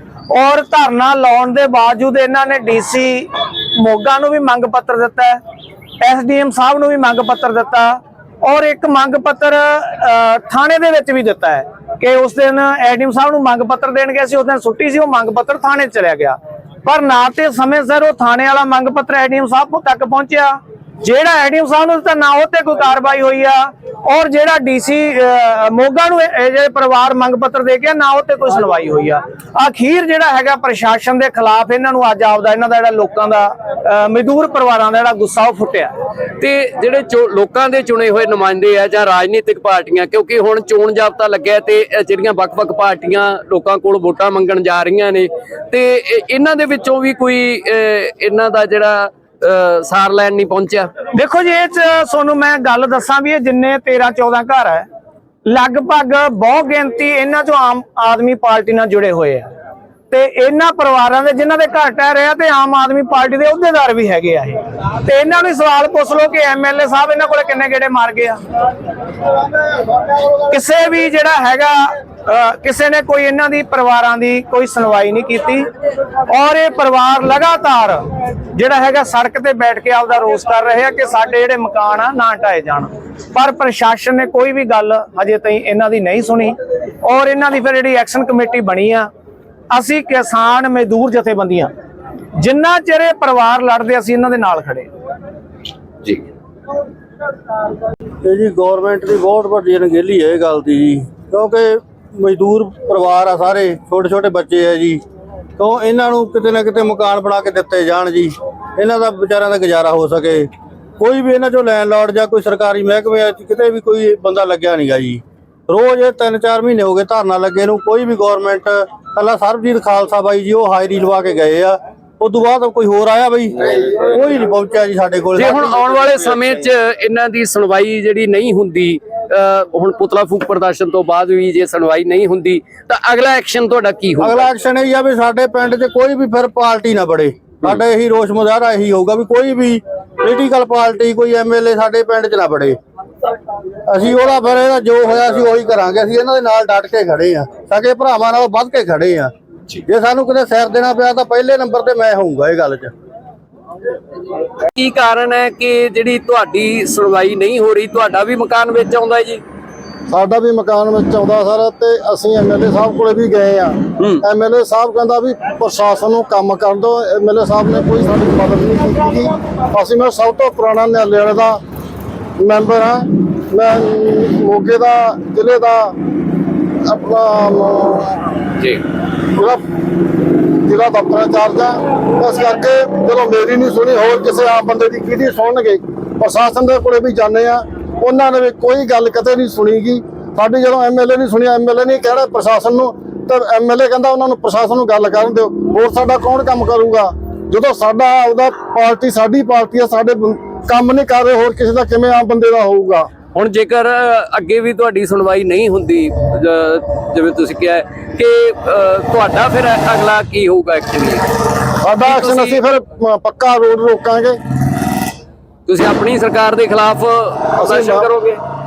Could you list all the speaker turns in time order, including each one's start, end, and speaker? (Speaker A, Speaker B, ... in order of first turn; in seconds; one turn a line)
Speaker A: 0.3-5.4
Speaker A: 6.0-35.9
Speaker B: 36.4-51.1
Speaker A: 51.1-54.9
Speaker A: 55.5-59.5
Speaker A: 60.1-68.4
Speaker A: 70.5-75.7
Speaker A: 76.3-89.1
Speaker A: 89.7-91.7
Speaker A: 92.4-94.9
Speaker C: 98.2-105.0
Speaker C: 105.6-125.7
Speaker B: 125.4-134.4
Speaker C: 134.2-142.8
Speaker C: 143.9-149.3
Speaker C: 149.9-152.9
Speaker B: 154.7-159.4
Speaker D: 160.1-171.6
Speaker D: 172.4-176.0
Speaker D: 176.8-178.3
Speaker D: 179.3-179.6
Speaker D: 180.7-203.1
Speaker B: 203.3-211.3
Speaker D: 211.8-214.4
Speaker B: 212.0-212.7
Speaker B: 215.7-218.4
Speaker D: 217.6-218.1